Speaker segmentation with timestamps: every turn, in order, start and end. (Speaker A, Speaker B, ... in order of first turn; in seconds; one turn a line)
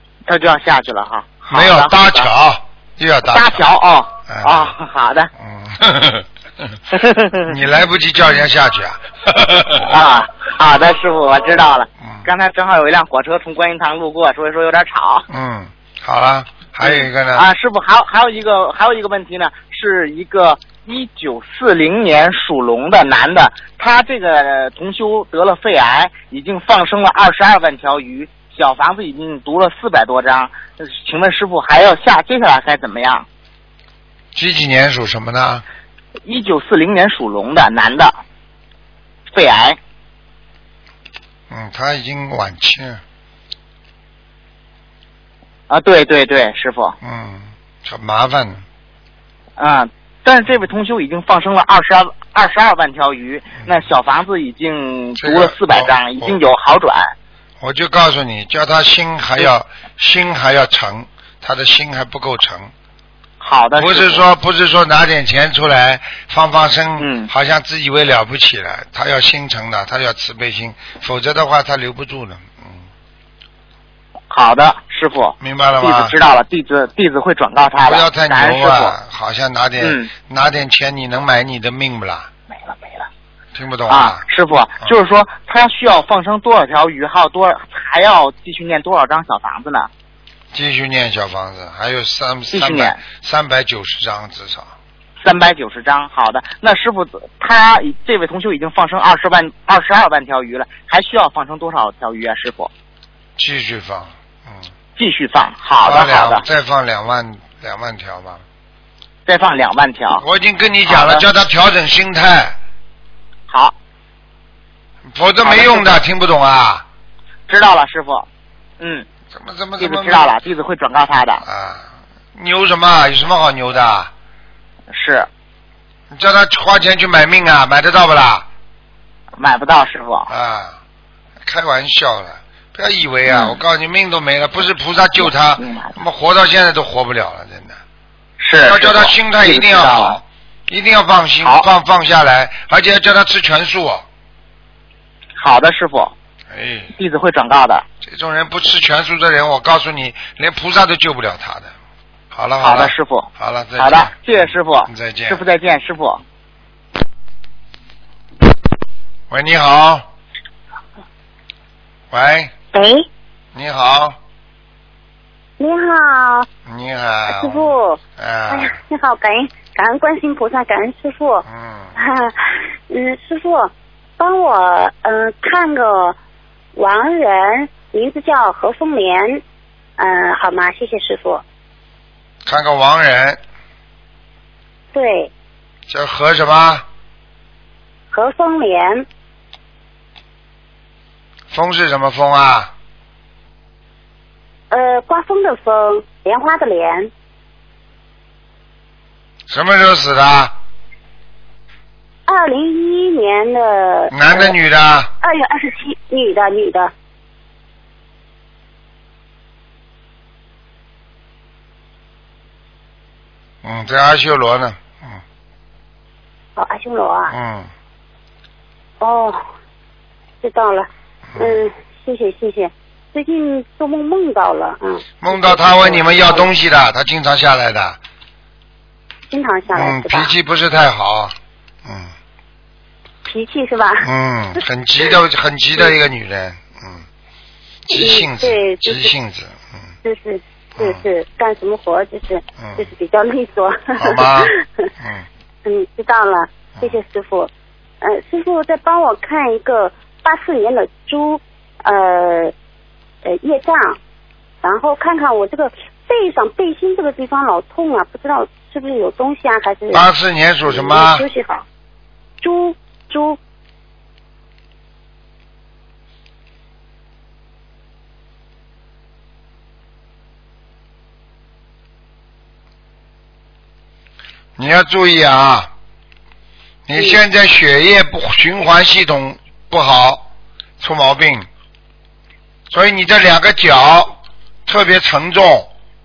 Speaker A: 0.3-2.3
Speaker B: 1.5-3.6
Speaker A: 3.3-5.3
Speaker B: 4.3-4.8
Speaker B: 5.4-6.8
Speaker A: 6.9-7.5
Speaker B: 7.4-9.9
Speaker A: 9.8-15.3
Speaker B: 15.3-17.5
Speaker A: 16.8-33.3
Speaker B: 34.4-35.6
Speaker A: 36.2-38.2
Speaker A: 39.3-39.8
Speaker B: 41.5-43.0
Speaker A: 45.7-47.0
Speaker B: 47.0-48.6
Speaker A: 49.6-57.1
Speaker B: 55.2-56.4
Speaker B: 57.6-62.7
Speaker A: 63.4-64.2
Speaker B: 63.8-72.8
Speaker A: 67.0-67.3
Speaker A: 74.3-79.0
Speaker B: 75.4-76.2
Speaker B: 77.8-82.3
Speaker A: 79.8-80.1
Speaker A: 82.5-83.1
Speaker B: 83.5-84.2
Speaker A: 83.9-89.9
Speaker B: 90.5-94.7
Speaker A: 92.5-93.0
Speaker A: 95.2-102.7
Speaker B: 103.4-104.7
Speaker A: 105.0-106.4
Speaker B: 105.8-108.4
Speaker A: 109.3-110.2
Speaker B: 110.2-112.6
Speaker A: 110.9-111.2
Speaker A: 113.5-113.8
Speaker B: 115.1-116.8
Speaker A: 115.4-116.0
Speaker A: 117.5-118.3
Speaker A: 118.8-119.1
Speaker B: 119.3-120.3
Speaker A: 119.8-121.4
Speaker B: 121.4-124.1
Speaker A: 124.9-125.3
Speaker B: 126.1-128.5
Speaker A: 129.4-130.3
Speaker B: 130.3-130.8
Speaker B: 131.4-137.8
Speaker A: 133.3-133.6
Speaker A: 135.2-135.9
Speaker A: 138.4-140.2
Speaker B: 138.6-144.1
Speaker A: 145.4-146.2
Speaker B: 146.5-146.9
Speaker A: 147.0-147.8
Speaker B: 148.0-151.7
Speaker B: 152.3-155.4
Speaker A: 152.6-156.2
Speaker B: 159.3-160.1
Speaker B: 162.1-162.5
Speaker B: 163.5-164.2
Speaker C: 165.6-166.5
Speaker B: 166.7-168.8
Speaker C: 167.3-171.4
Speaker B: 171.5-171.9
Speaker C: 172.0-176.2
Speaker C: 176.8-179.4
Speaker C: 180.0-181.4
Speaker B: 182.5-183.4
Speaker C: 184.9-185.3
Speaker B: 185.9-186.8
Speaker C: 188.1-189.1
Speaker B: 191.5-192.7
Speaker C: 194.7-197.1
Speaker B: 199.5-200.5
Speaker C: 202.3-204.6
Speaker B: 204.1-205.1
Speaker C: 205.2-206.9
Speaker B: 213.6-215.2
Speaker C: 216.6-217.3
Speaker B: 217.3-217.7
Speaker C: 219.0-219.4
Speaker C: 220.4-226.5
Speaker B: 221.3-221.6
Speaker B: 225.2-228.0
Speaker C: 229.3-230.3
Speaker B: 229.7-232.1
Speaker C: 233.3-234.6
Speaker B: 234.0-237.1
Speaker B: 237.9-239.8
Speaker C: 237.9-239.1
Speaker C: 240.0-244.6
Speaker B: 240.8-241.0
Speaker B: 242.6-242.9
Speaker B: 244.0-245.3
Speaker C: 245.7-247.5
Speaker C: 248.0-252.5
Speaker C: 253.2-254.0
Speaker C: 254.6-260.1
Speaker B: 259.9-261.2
Speaker C: 260.7-261.6
Speaker C: 262.4-263.4
Speaker B: 274.6-275.7
Speaker B: 276.9-280.2
Speaker B: 280.8-281.5
Speaker B: 282.7-285.7